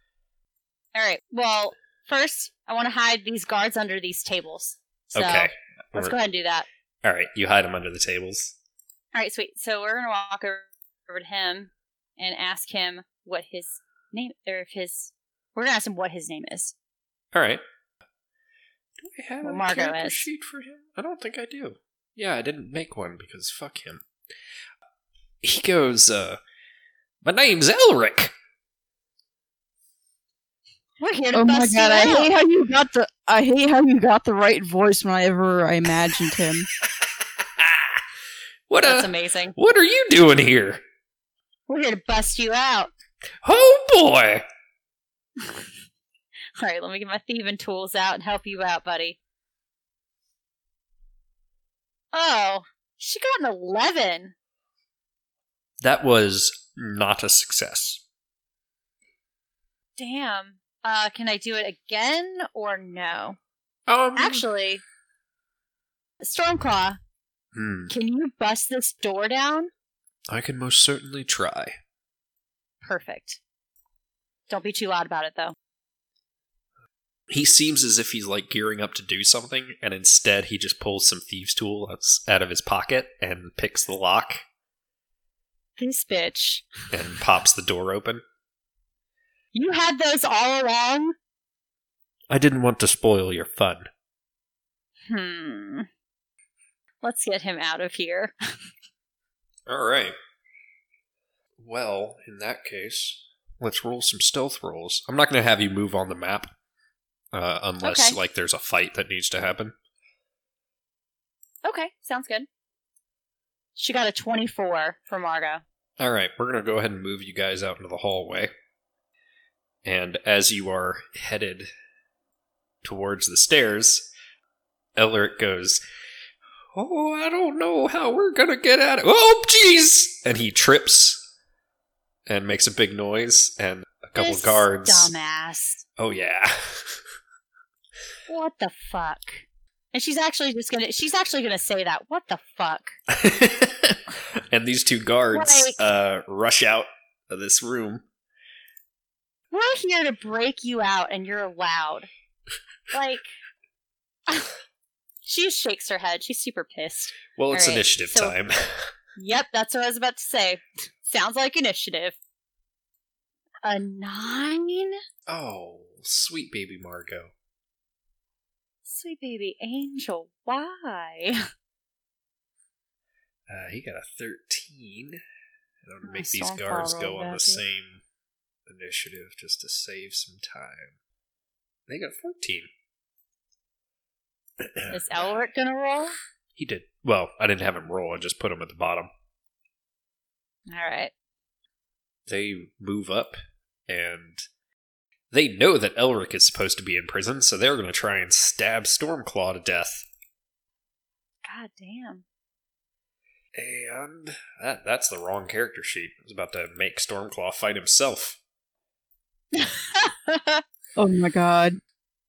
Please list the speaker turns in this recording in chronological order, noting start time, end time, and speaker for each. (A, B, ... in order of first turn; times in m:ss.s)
0:01.0-0:06.7 A
0:05.1-0:06.2 B
0:07.0-0:08.6 B
0:09.1-0:16.7 A
0:17.3-0:17.6 B
0:19.0-0:24.0 B
0:19.4-0:20.3 A
0:25.4-0:26.4 B
0:27.2-0:28.3 B
0:31.0-0:32.3 A
0:31.3-0:36.7 C
0:37.6-0:38.0 B
0:38.7-0:40.8 B
0:38.8-0:39.6 A
0:41.7-0:42.9 A
0:43.4-0:44.4 B
0:45.4-0:45.7 A
0:46.6-0:49.2 A
0:52.1-0:54.3 A
0:55.8-0:58.0 B
1:00.0-1:03.4 A
1:03.9-1:04.4 B
1:04.2-1:04.8 A
1:06.2-1:07.0 A
1:07.5-1:07.9 B
1:07.9-1:09.7 A
1:10.3-1:11.8 B
1:12.8-1:13.4 A
1:14.5-1:15.6 A
1:17.3-1:24.4 B
1:25.8-1:26.7 A
1:26.9-1:28.2 B
1:29.5-1:31.2 A
1:32.3-1:33.9 B
1:35.1-1:35.9 A
1:37.0-1:38.4 A
1:39.7-1:40.2 B
1:41.6-1:46.5 B
1:47.3-1:49.7 B
1:47.8-1:48.2 A
1:51.6-1:52.5 A
1:53.8-1:55.6 A
1:56.0-1:58.5 B
1:59.8-2:01.7 B
2:02.8-2:04.1 B
2:05.0-2:05.8 B
2:06.8-2:11.2 B
2:12.3-2:15.1 B
2:14.2-2:15.8 A
2:16.0-2:17.0 B
2:18.3-2:22.9 A
2:23.1-2:24.0 B
2:24.5-2:28.0 B
2:25.3-2:25.8 A
2:29.5-2:32.1 A
2:32.9-2:33.3 A
2:35.2-2:38.3 A
2:37.4-2:38.9 B
2:39.2-2:42.2 A
2:43.6-2:45.0 A
2:45.3-2:47.3 B
2:48.8-2:51.4 A
2:53.5-2:55.2 B
2:55.8-2:58.0 B
2:56.0-2:57.6 A
2:58.7-3:01.0 B
3:01.9-3:02.7 B
3:04.6-3:05.0 B
3:04.9-3:06.2 A
3:06.6-3:09.1 B
3:10.7-3:11.1 A
3:12.3-3:13.4 B
3:13.9-3:14.4 B
3:15.3-3:20.1 B
3:21.4-3:22.2 A
3:23.6-3:28.4 B
3:29.5-3:30.6 A
3:31.0-3:31.8 C